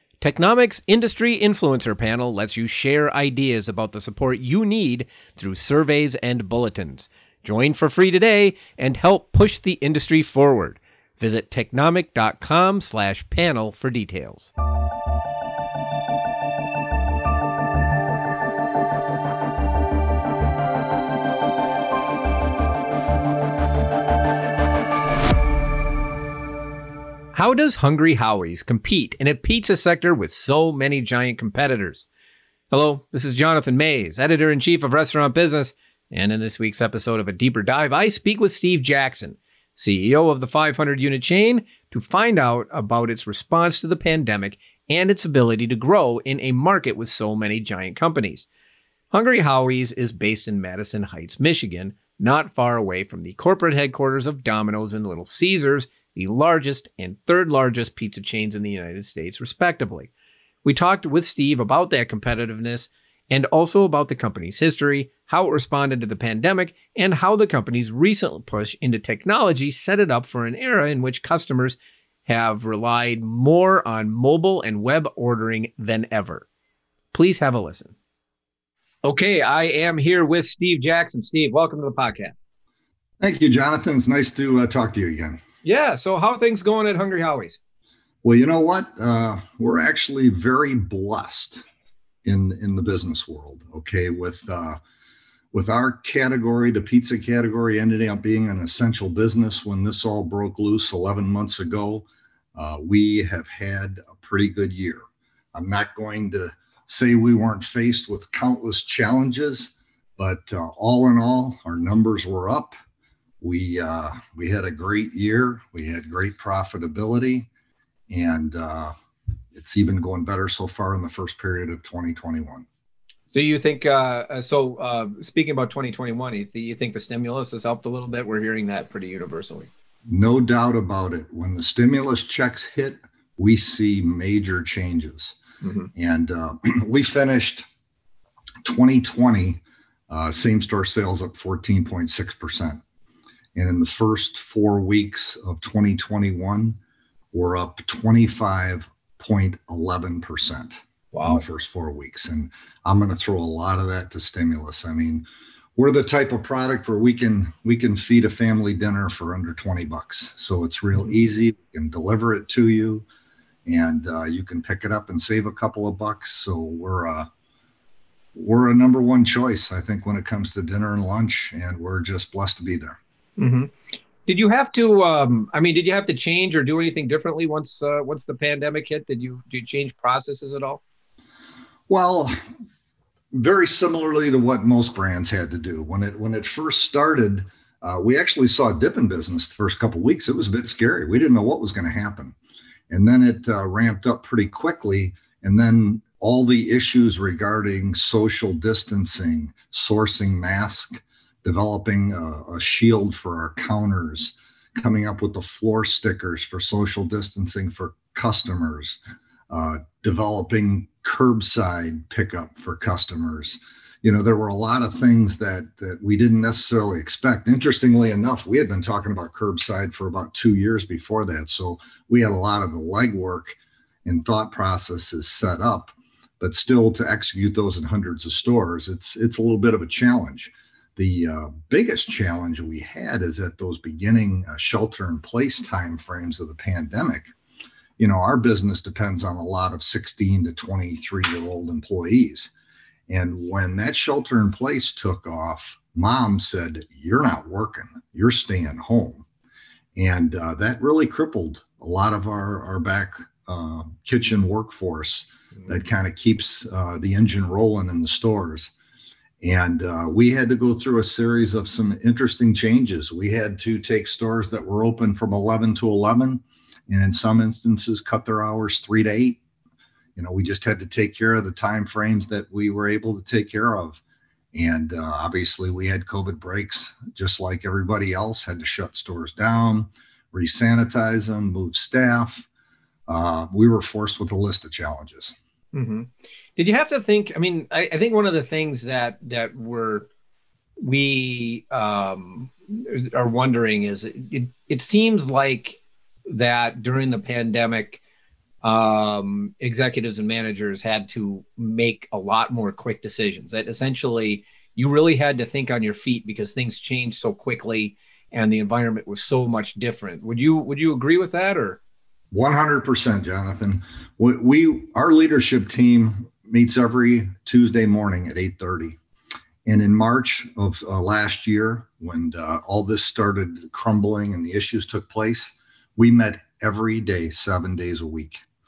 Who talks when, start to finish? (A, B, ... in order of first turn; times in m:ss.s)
0:00.2-0:14.5 A
0:27.3-0:32.1 A
0:32.7-0:48.5 A
0:49.1-1:00.1 A
1:00.6-1:16.4 A
1:17.1-1:17.9 A
1:19.0-1:22.4 A
1:23.2-1:25.4 B
1:25.6-1:27.6 A
1:28.2-1:31.6 B
1:32.2-1:34.8 B
1:35.5-1:52.7 B
1:53.4-1:57.5 B
1:58.1-1:58.9 B
1:59.5-2:02.6 B
2:03.3-2:09.7 A
2:10.0-2:15.4 B
2:15.6-2:15.9 A
2:15.9-2:17.7 B
2:18.6-2:22.8 B
2:23.5-2:26.8 B
2:27.3-2:35.2 B
2:31.1-2:31.4 A
2:35.8-2:43.0 B
2:43.7-2:47.3 B
2:48.3-2:53.0 B
2:53.4-3:00.8 A
3:01.9-3:02.4 B
3:03.3-3:12.3 B
3:12.9-3:57.3 B
3:58.0-4:02.5 B
4:03.1-4:09.2 B
4:10.0-4:18.7 B
4:19.4-4:29.4 B
4:30.2-4:34.0 B
4:34.5-4:42.4 B
4:43.1-4:45.3 B
4:45.7-4:50.1 A
4:50.8-4:58.0 A
4:58.6-5:11.8 A
5:12.3-5:19.0 B
5:19.6-5:28.4 B